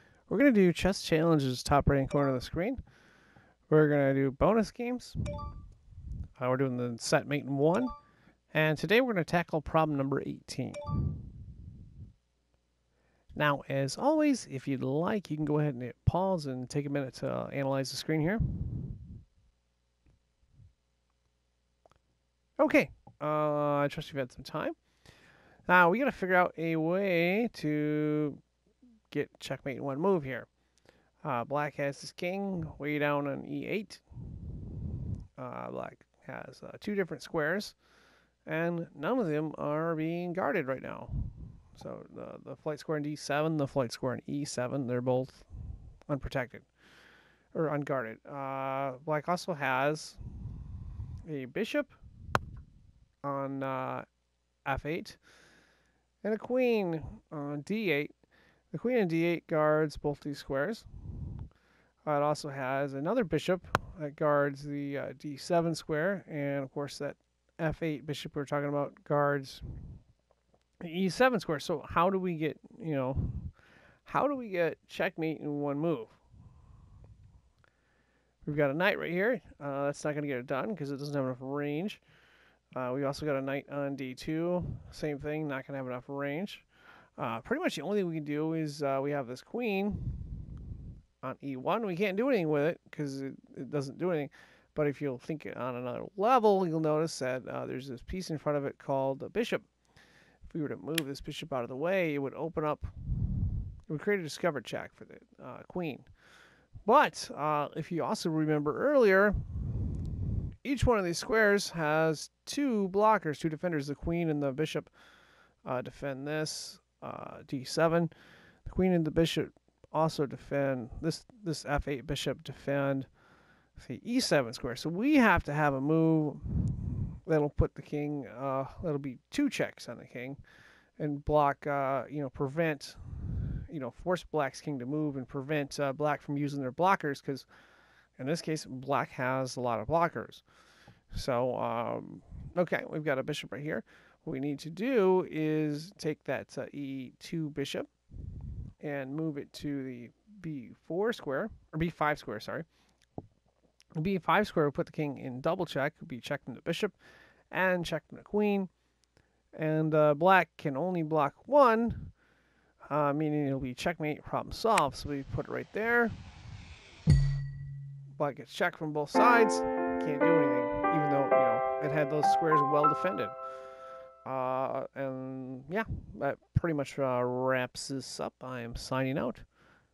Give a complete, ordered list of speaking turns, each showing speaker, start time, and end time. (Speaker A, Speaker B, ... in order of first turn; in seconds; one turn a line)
Speaker A: 0.3-2.8
Speaker A: 3.7-5.4
Speaker A: 6.4-7.9
Speaker A: 8.5-11.3
Speaker A: 13.3-19.0
Speaker A: 22.6-24.8
Speaker A: 25.7-28.4
Speaker A: 29.1-30.5
Speaker A: 31.2-37.8
Speaker A: 38.5-45.5
Speaker A: 46.1-46.7
Speaker A: 47.5-50.2
Speaker A: 51.2-51.9
Speaker A: 53.2-54.0
Speaker A: 54.6-55.2
Speaker A: 56.2-58.1
Speaker A: 58.7-61.4
Speaker A: 62.0-69.7
Speaker A: 70.8-73.5
Speaker A: 74.0-76.2
Speaker A: 78.4-82.0
Speaker A: 82.7-86.7
Speaker A: 87.2-90.6
Speaker A: 91.2-99.7
Speaker A: 100.5-106.1
Speaker A: 106.8-114.9
Speaker A: 115.6-118.1
Speaker A: 118.6-123.1
Speaker A: 123.8-130.4
Speaker A: 131.0-137.5
Speaker A: 138.2-140.4
Speaker A: 141.1-147.9
Speaker A: 148.8-152.7
Speaker A: 153.9-156.9
Speaker A: 157.5-158.7
Speaker A: 159.5-162.1
Speaker A: 162.9-166.2
Speaker A: 168.2-173.3
Speaker A: 174.2-179.4